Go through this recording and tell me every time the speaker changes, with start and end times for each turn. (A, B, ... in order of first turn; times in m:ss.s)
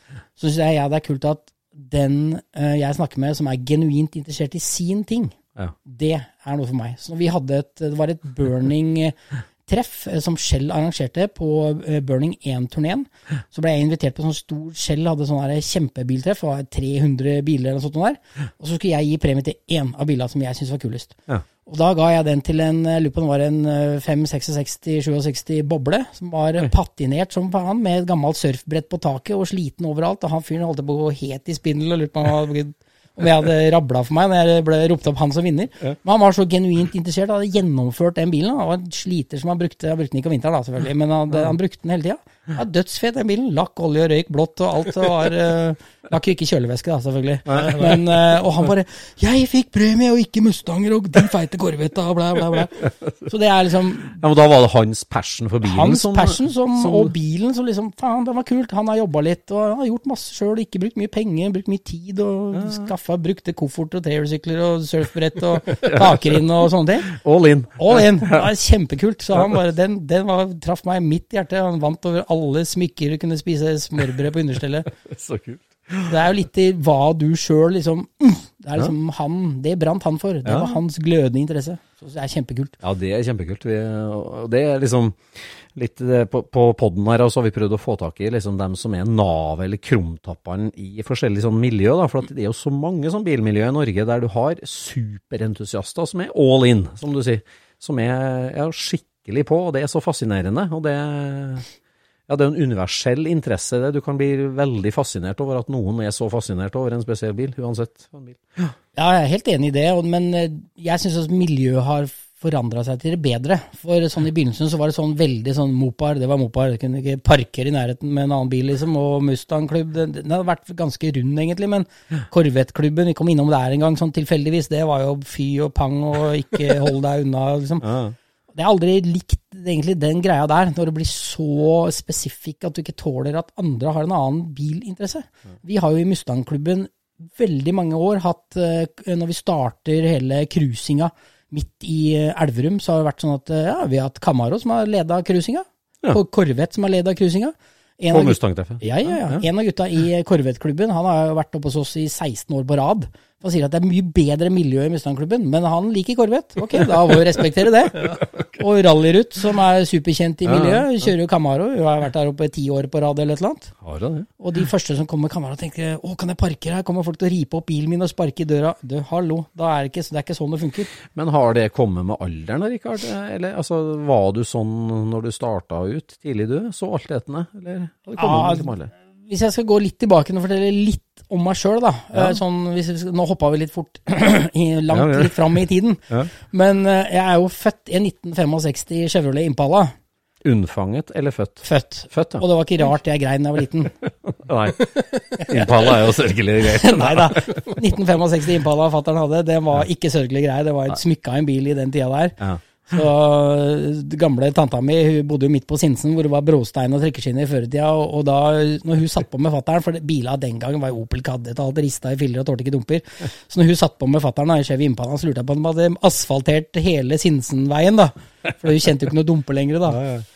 0:00.4-0:09.2 A
0:09.7-0:54.2 A
0:47.5-0:47.8 B
0:54.2-0:57.1 B
0:55.6-1:07.2 A
1:02.5-1:02.9 B
1:07.1-1:08.5 B
1:07.8-1:14.9 A
1:15.0-1:16.1 B
1:16.1-1:22.8 A
1:20.4-1:20.8 B
1:22.8-1:41.7 B
1:42.3-1:48.7 B
1:49.0-2:07.9 A
2:07.8-2:08.2 B
2:08.5-2:43.7 A
2:28.1-2:29.4 B
2:40.4-2:40.9 B
2:43.8-2:44.3 B
2:44.4-2:50.9 A
2:51.1-2:58.9 B
2:58.2-2:58.7 A
2:59.3-3:09.9 A
3:02.1-3:02.4 B
3:04.9-3:06.3 B
3:10.4-3:12.4 B
3:11.6-3:13.9 A
3:14.2-3:17.6 B
3:15.4-3:15.9 A
3:16.7-3:40.0 A
3:39.9-3:40.2 B